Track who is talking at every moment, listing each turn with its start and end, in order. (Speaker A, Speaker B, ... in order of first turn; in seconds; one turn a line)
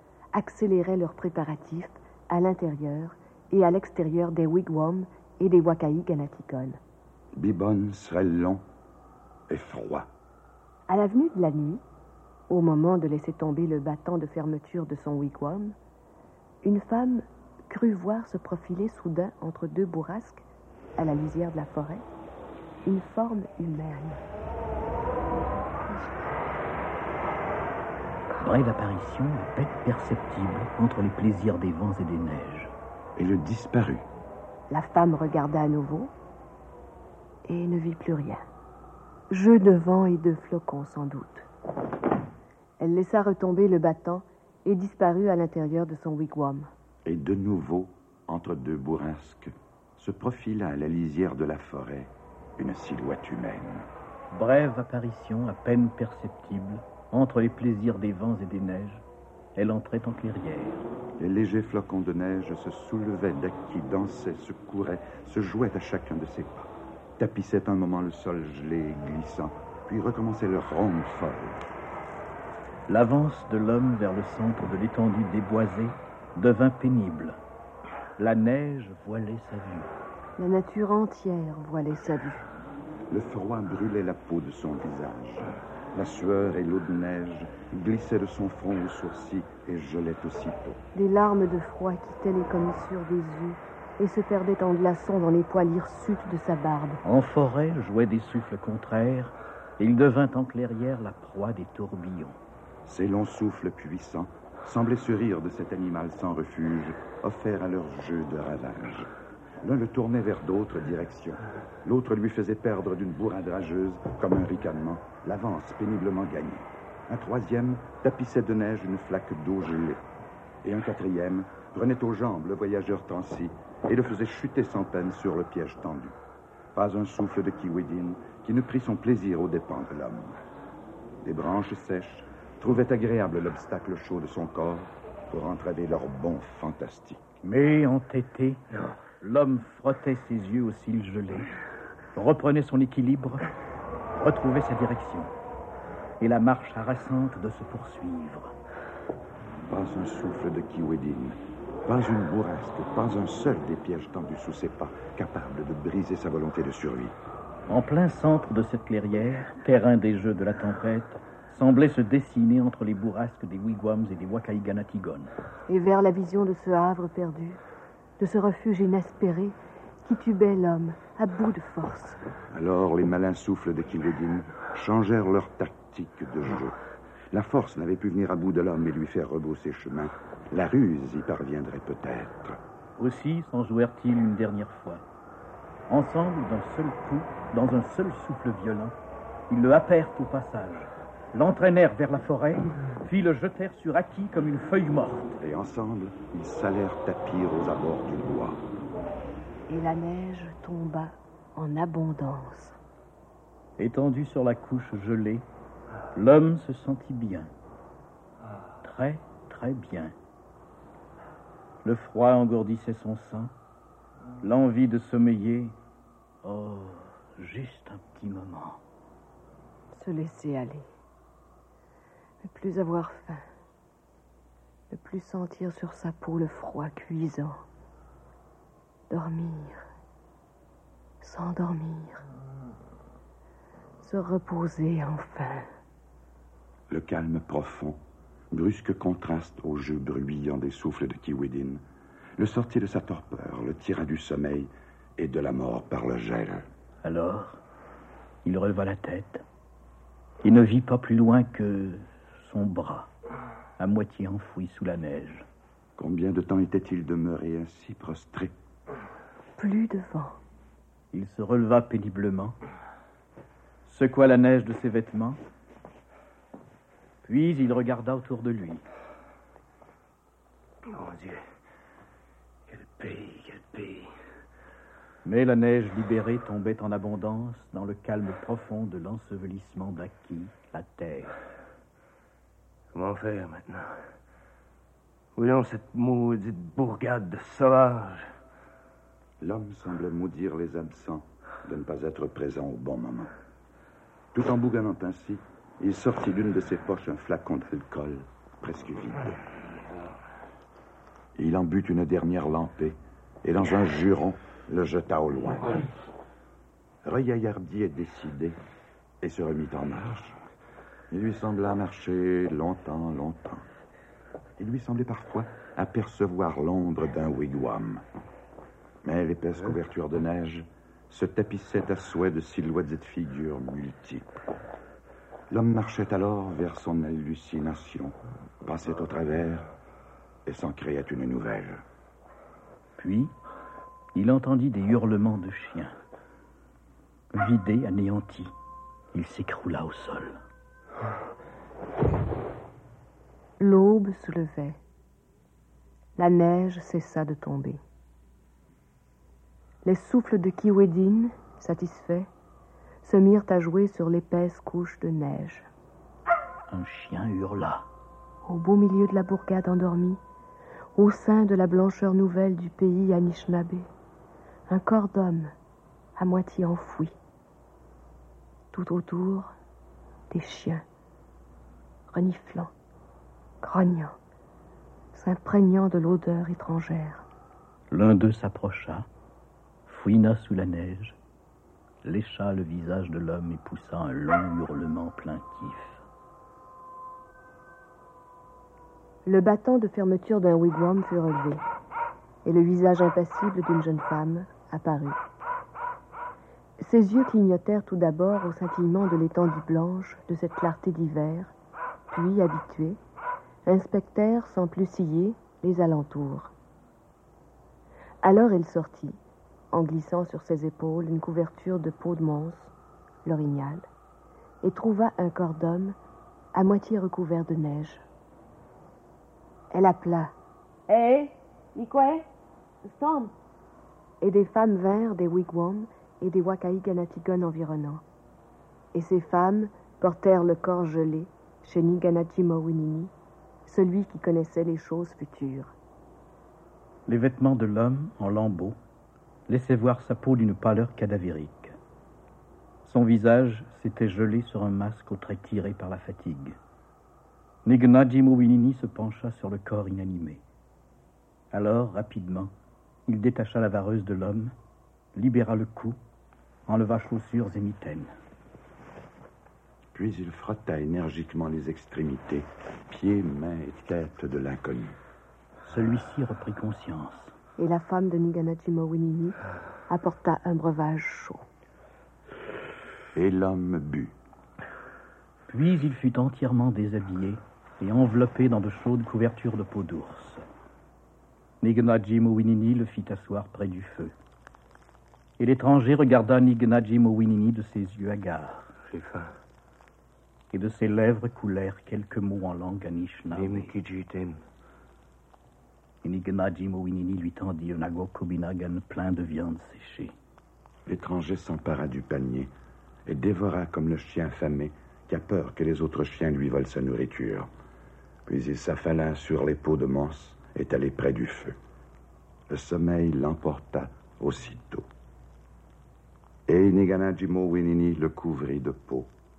Speaker A: 0.3-6.8
Speaker B: 7.3-8.6
Speaker B: 9.5-10.1
Speaker A: 10.9-11.8
Speaker A: 12.5-15.8
Speaker A: 16.6-20.4
Speaker A: 21.0-22.0
Speaker A: 22.8-24.2
Speaker C: 28.4-32.7
Speaker B: 33.1-34.0
Speaker A: 34.7-36.1
Speaker A: 37.5-38.4
Speaker A: 39.3-41.5
Speaker A: 42.8-46.7
Speaker B: 47.0-53.9
Speaker C: 54.3-59.0
Speaker C: 59.5-60.8
Speaker B: 61.2-71.6
Speaker C: 72.9-77.4
Speaker C: 78.2-79.9
Speaker A: 80.4-82.4
Speaker B: 83.1-90.8
Speaker A: 90.9-97.0
Speaker C: 97.0-102.4
Speaker B: 102.8-109.1
Speaker B: 109.6-120.0
Speaker B: 120.6-126.2
Speaker B: 126.7-130.3
Speaker B: 131.2-137.2
Speaker C: 137.4-138.7
Speaker C: 139.2-141.5
Speaker C: 142.1-143.5
Speaker C: 144.1-145.3
Speaker C: 146.2-148.5
Speaker B: 149.7-157.1
Speaker C: 157.7-165.3
Speaker A: 165.7-167.6
Speaker A: 168.2-172.2
Speaker B: 172.5-176.8
Speaker B: 177.3-182.6
Speaker C: 183.0-185.0
Speaker C: 185.9-188.9
Speaker C: 189.5-195.4
Speaker B: 195.4-198.6
Speaker A: 199.7-202.8
Speaker C: 203.8-205.4
Speaker C: 206.1-207.5
Speaker C: 208.8-210.1
Speaker C: 211.8-213.5
Speaker C: 214.4-215.7
Speaker C: 216.4-218.8
Speaker A: 219.9-220.8
Speaker A: 222.4-223.4
Speaker A: 224.9-227.6
Speaker A: 229.1-229.8
Speaker A: 231.2-232.2
Speaker A: 234.0-235.7
Speaker B: 236.9-241.8
Speaker B: 242.4-246.7
Speaker C: 247.0-247.6
Speaker C: 248.4-249.4
Speaker C: 250.4-253.1
Speaker C: 253.8-255.4
Speaker B: 256.0-258.5
Speaker A: 259.6-260.4
Speaker C: 261.1-262.6
Speaker C: 263.8-265.4
Speaker C: 267.2-268.8
Speaker D: 270.8-271.4
Speaker D: 272.7-274.1
Speaker C: 275.2-281.3
Speaker D: 282.9-283.9
Speaker D: 285.3-288.3
Speaker B: 289.4-293.3
Speaker B: 294.3-299.4
Speaker B: 301.3-305.9
Speaker B: 307.0-308.6
Speaker B: 309.2-310.4
Speaker B: 311.1-313.6
Speaker B: 314.6-318.0
Speaker B: 319.0-324.4
Speaker B: 325.5-329.6
Speaker B: 330.4-331.8
Speaker C: 333.0-333.3
Speaker C: 334.1-335.9
Speaker C: 337.3-338.5
Speaker C: 339.1-340.4
Speaker A: 343.6-344.8
Speaker A: 346.2-347.8
Speaker A: 349.8-352.3
Speaker A: 353.0-355.7
Speaker C: 356.7-357.9
Speaker A: 358.4-360.2
Speaker A: 360.9-363.9
Speaker A: 364.7-365.5
Speaker A: 366.2-367.1
Speaker A: 368.7-369.5
Speaker A: 370.3-370.8
Speaker A: 372.1-372.7
Speaker A: 373.6-374.2
Speaker A: 375.1-377.2
Speaker C: 377.9-379.1
Speaker C: 379.9-381.2
Speaker C: 382.0-386.0
Speaker A: 389.2-391.6
Speaker A: 392.4-395.2
Speaker A: 396.8-401.5
Speaker A: 402.1-403.0
Speaker A: 403.6-406.5
Speaker A: 408.2-409.2
Speaker A: 409.7-412.7
Speaker A: 413.2-413.8
Speaker A: 414.6-415.9
Speaker A: 416.5-418.0
Speaker A: 419.7-420.3
Speaker A: 421.8-422.2
Speaker A: 423.0-423.2
Speaker A: 424.2-428.0
Speaker A: 428.9-433.1
Speaker A: 433.6-435.7
Speaker C: 437.1-438.8
Speaker C: 439.5-441.7
Speaker C: 442.8-446.6
Speaker C: 447.6-450.4
Speaker C: 451.5-452.5
Speaker C: 453.1-454.5
Speaker C: 455.1-456.0
Speaker C: 456.7-458.1
Speaker B: 459.9-465.0
Speaker C: 465.7-467.3
Speaker A: 467.6-469.4
Speaker A: 469.9-471.4
Speaker B: 473.1-474.1
Speaker C: 475.5-480.4
Speaker C: 481.6-484.1
Speaker C: 485.4-488.7
Speaker D: 488.9-489.3
Speaker C: 490.5-493.7
Speaker D: 493.3-494.4
Speaker C: 496.0-500.1
Speaker B: 500.9-502.5
Speaker B: 503.1-507.5
Speaker B: 508.3-511.6
Speaker B: 512.5-514.9
Speaker B: 516.5-519.1